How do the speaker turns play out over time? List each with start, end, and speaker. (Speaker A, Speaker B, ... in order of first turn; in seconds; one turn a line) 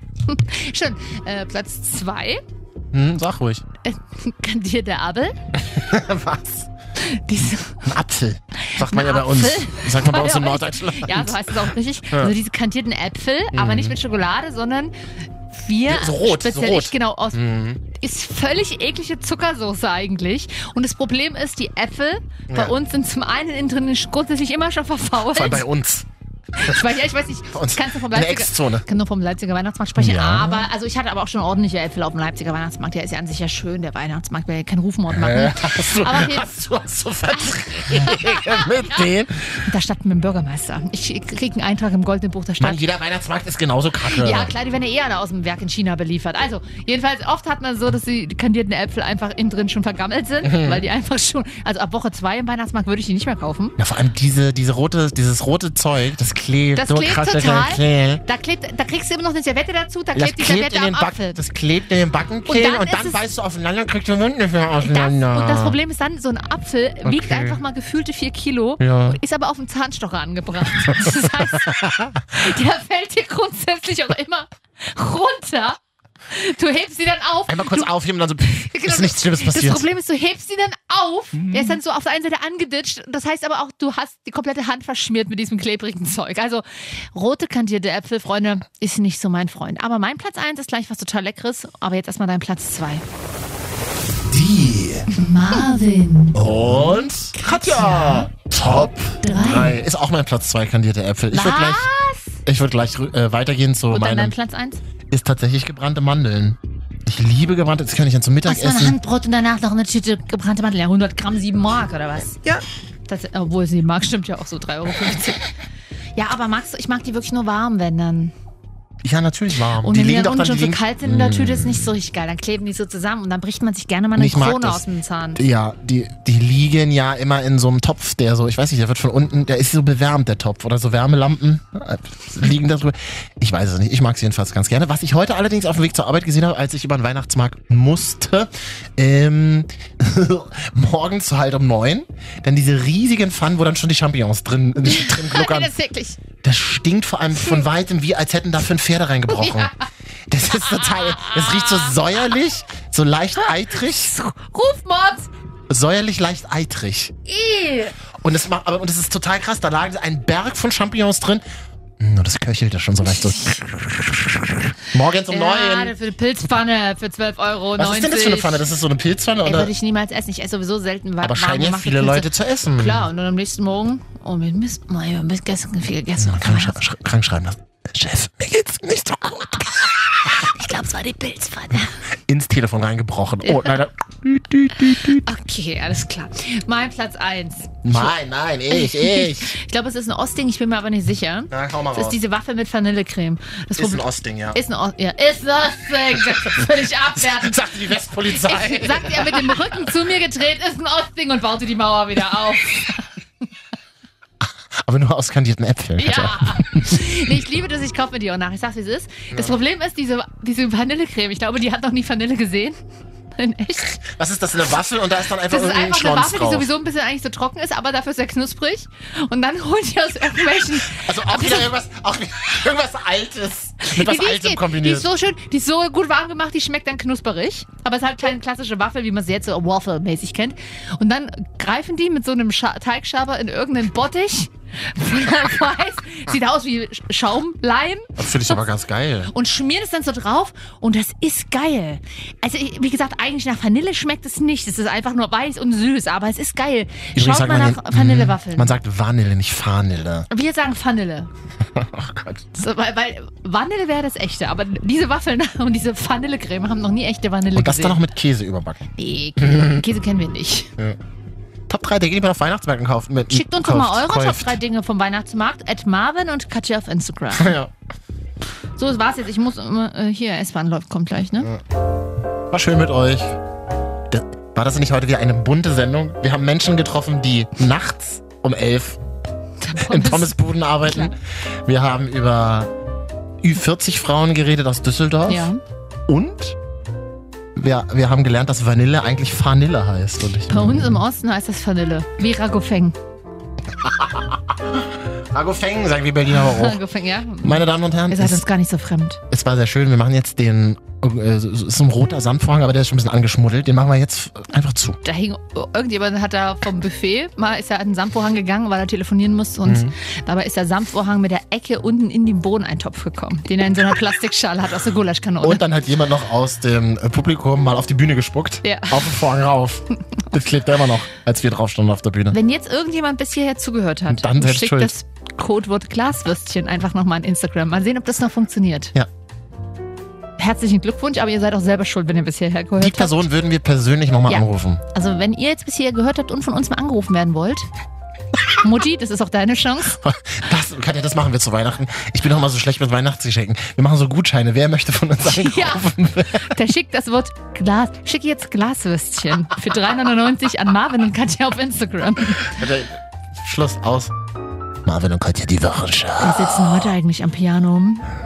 Speaker A: 0.2-2.4
Speaker B: 2.9-3.6
Speaker A: 3.8-5.4
Speaker B: 5.6-6.7
Speaker A: 7.0-7.9
Speaker B: 7.8-12.3
Speaker A: 8.6-14.9
Speaker B: 13.5-13.9
Speaker A: 15.5-25.6
Speaker B: 15.8-17.8
Speaker B: 22.5-22.7
Speaker B: 25.3-26.1
Speaker A: 26.6-36.5
Speaker B: 27.5-28.9
Speaker B: 30.0-30.7
Speaker B: 35.1-39.6
Speaker A: 37.3-39.1
Speaker A: 39.6-42.8
Speaker B: 42.6-44.5
Speaker A: 44.0-53.8
Speaker B: 50.4-50.8
Speaker B: 53.8-58.2
Speaker A: 56.7-61.4
Speaker B: 60.1-65.8
Speaker A: 62.5-63.2
Speaker A: 64.9-71.8
Speaker B: 67.0-67.6
Speaker B: 68.8-69.2
Speaker B: 70.9-72.2
Speaker A: 72.3-75.8
Speaker A: 76.3-77.9
Speaker B: 77.5-79.8
Speaker A: 78.4-93.0
Speaker B: 81.4-81.7
Speaker B: 94.3-95.1
Speaker A: 95.1-96.5
Speaker B: 96.3-101.9
Speaker A: 97.3-98.3
Speaker A: 99.2-99.8
Speaker A: 101.3-102.4
Speaker B: 102.4-104.3
Speaker A: 103.9-104.8
Speaker B: 105.1-109.0
Speaker A: 108.5-112.4
Speaker A: 113.1-115.5
Speaker A: 116.2-118.3
Speaker B: 119.0-121.9
Speaker A: 119.8-125.4
Speaker B: 124.2-124.8
Speaker B: 125.3-145.7
Speaker A: 144.8-146.2
Speaker B: 146.4-149.8
Speaker A: 149.3-149.8
Speaker B: 150.3-154.1
Speaker A: 150.5-152.1
Speaker A: 153.4-155.3
Speaker B: 155.7-157.1
Speaker A: 157.2-157.9
Speaker B: 158.2-161.4
Speaker B: 162.0-165.9
Speaker A: 163.0-163.6
Speaker A: 165.3-168.6
Speaker B: 167.8-169.7
Speaker A: 169.4-176.8
Speaker B: 171.2-173.1
Speaker B: 176.2-180.4
Speaker A: 179.5-182.0
Speaker B: 182.3-185.3
Speaker A: 183.4-183.8
Speaker A: 185.1-188.1
Speaker B: 187.8-189.5
Speaker A: 188.7-203.1
Speaker B: 191.5-192.2
Speaker B: 193.8-194.6
Speaker B: 197.1-199.7
Speaker B: 204.8-207.1
Speaker A: 206.0-212.8
Speaker A: 213.3-214.0
Speaker B: 214.1-216.7
Speaker A: 215.5-221.7
Speaker B: 220.9-225.1
Speaker A: 223.8-238.6
Speaker B: 238.2-239.3
Speaker A: 239.3-248.7
Speaker B: 247.1-250.3
Speaker A: 250.3-251.3
Speaker B: 251.7-252.5
Speaker A: 252.6-258.0
Speaker B: 257.5-259.8
Speaker A: 259.0-260.7
Speaker B: 261.7-264.6
Speaker A: 263.3-267.5
Speaker B: 267.3-267.7
Speaker A: 268.8-271.5
Speaker B: 272.5-273.4
Speaker B: 274.1-279.0
Speaker A: 279.6-281.1
Speaker B: 279.8-282.7
Speaker B: 283.4-285.5
Speaker A: 285.3-285.6
Speaker B: 286.1-286.6
Speaker B: 287.6-291.0
Speaker A: 290.5-293.0
Speaker B: 293.8-296.8
Speaker A: 296.3-299.2
Speaker B: 297.4-298.4
Speaker B: 299.3-305.0
Speaker A: 305.0-315.6
Speaker B: 309.6-309.9
Speaker B: 315.4-322.4
Speaker A: 318.6-319.1
Speaker A: 322.3-328.9
Speaker B: 324.1-324.9
Speaker A: 330.4-333.2
Speaker B: 332.8-334.8
Speaker A: 334.3-337.7
Speaker A: 338.6-340.0
Speaker B: 339.9-346.5
Speaker A: 345.2-352.6
Speaker B: 352.4-354.1
Speaker B: 354.9-356.9
Speaker A: 356.2-358.1